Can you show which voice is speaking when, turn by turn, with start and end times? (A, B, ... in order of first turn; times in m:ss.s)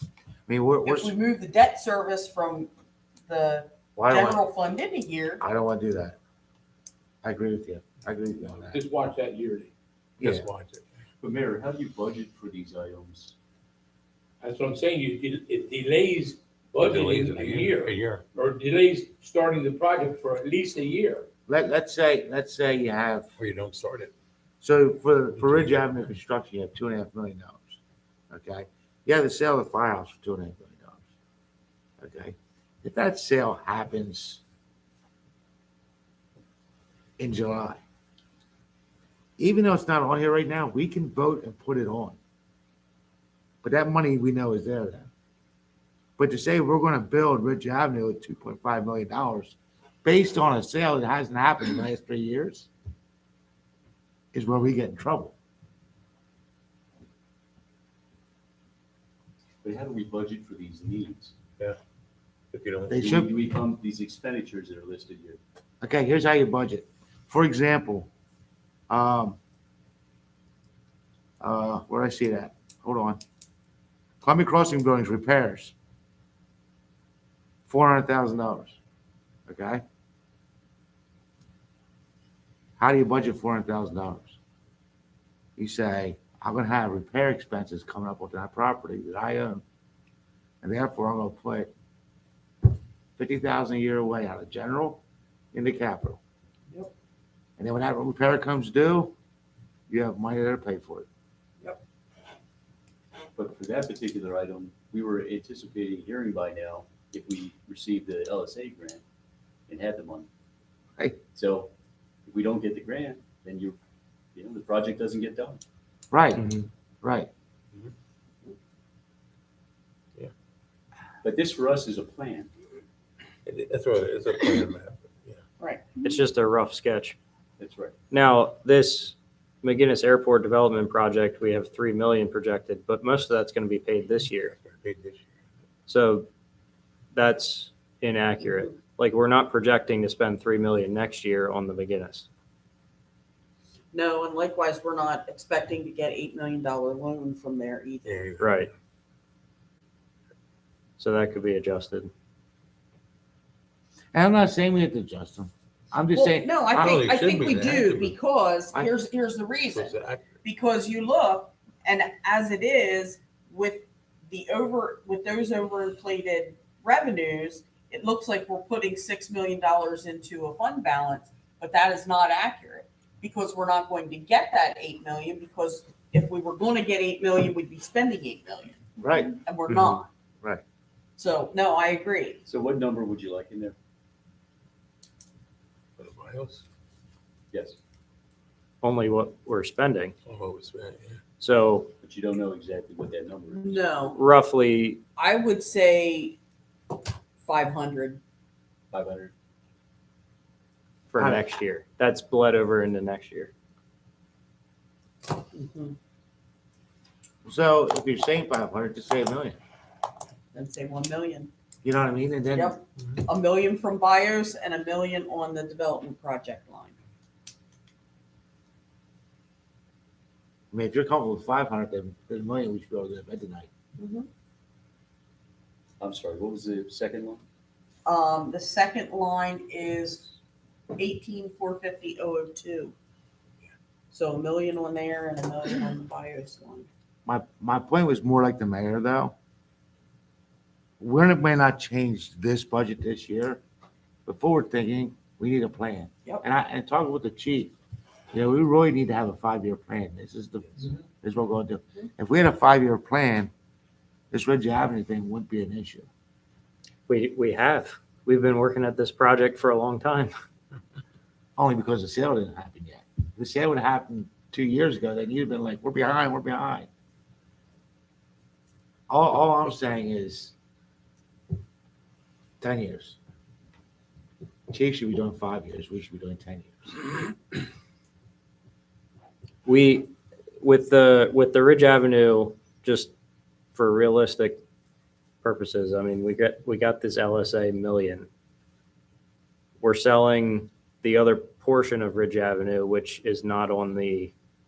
0:00.5-0:01.1 A
0:00.8-0:02.7 B
0:03.3-0:05.4 B
0:04.0-0:04.4 A
0:05.4-0:06.2 A
0:07.2-0:08.8 A
0:08.4-0:09.7 C
0:10.2-0:10.4 A
0:10.2-0:10.8 D
0:11.2-0:13.3 E
0:14.4-0:21.3 C
0:16.8-0:18.3 D
0:21.5-0:23.3 A
0:23.4-0:24.1 D
0:24.6-0:31.0 A
0:32.0-0:34.4 A
0:37.2-0:37.8 A
0:39.4-0:42.2 A
0:43.6-0:45.1 A
0:46.2-0:52.7 A
0:54.3-0:55.3 A
0:59.6-1:01.3 E
1:02.5-1:03.0 D
1:02.9-1:03.3 A
1:03.0-1:05.4 E
1:05.8-1:08.1 A
1:08.9-1:09.4 A
1:11.4-1:13.2 A
1:14.2-1:15.7 A
1:17.7-1:18.8 A
1:19.5-1:19.8 A
1:22.8-1:24.4 A
1:25.6-1:29.6 A
1:30.6-1:31.7 A
1:33.2-1:35.0 A
1:35.5-1:36.2 A
1:37.6-1:39.1 A
1:39.9-1:41.1 A
1:43.4-1:49.0 E
1:49.7-1:50.3 E
1:51.3-1:51.7 E
1:52.2-1:53.7 E
1:54.3-1:55.6 E
1:56.1-1:56.5 A
1:56.4-1:56.6 F
1:57.0-1:57.3 A
2:01.2-2:02.5 E
2:03.4-2:05.4 D
2:05.6-2:06.2 B
2:06.0-2:07.2 F
2:07.6-2:07.9 E
2:08.1-2:14.5 F
2:14.5-2:15.2 D
2:15.9-2:16.3 F
2:17.1-2:22.3 F
2:23.9-2:28.1 B
2:28.0-2:28.7 D
2:28.4-2:28.7 F
2:31.0-2:32.1 F
2:34.1-2:37.0 A
2:36.1-3:00.1 B
2:36.8-2:38.1 D
2:39.7-2:40.2 D
2:59.0-2:59.3 A
3:01.2-3:02.4 B
3:02.4-3:03.7 E
3:06.0-3:06.6 D
3:08.8-3:10.1 F
3:10.2-3:11.2 D
3:11.4-3:11.9 F
3:12.0-3:13.8 E
3:13.5-3:14.2 B
3:14.1-3:15.0 F
3:15.2-3:16.4 B
3:17.4-3:18.2 B
3:18.9-3:19.3 E
3:21.1-3:23.5 F
3:21.2-3:21.5 A
3:25.5-3:26.0 B
3:27.4-3:29.6 A
3:30.5-3:31.5 B
3:31.8-3:32.8 A
3:32.5-3:36.9 B
3:40.7-3:43.7 A
3:44.0-3:44.3 B
3:46.0-3:47.4 E
3:48.0-3:50.3 B
3:50.9-3:52.9 B
3:54.1-3:56.9 B
3:57.2-3:59.3 A
4:01.0-4:03.6 A
4:04.2-4:07.7 A
4:08.3-4:13.5 A
4:14.3-4:16.1 A
4:17.1-4:20.3 F
4:21.6-4:26.9 A
4:29.1-4:30.5 A
4:32.6-4:33.2 A
4:34.7-4:37.0 A
4:39.6-4:43.1 F
4:43.7-4:44.6 F
4:45.4-4:48.3 F
4:49.8-4:54.3 F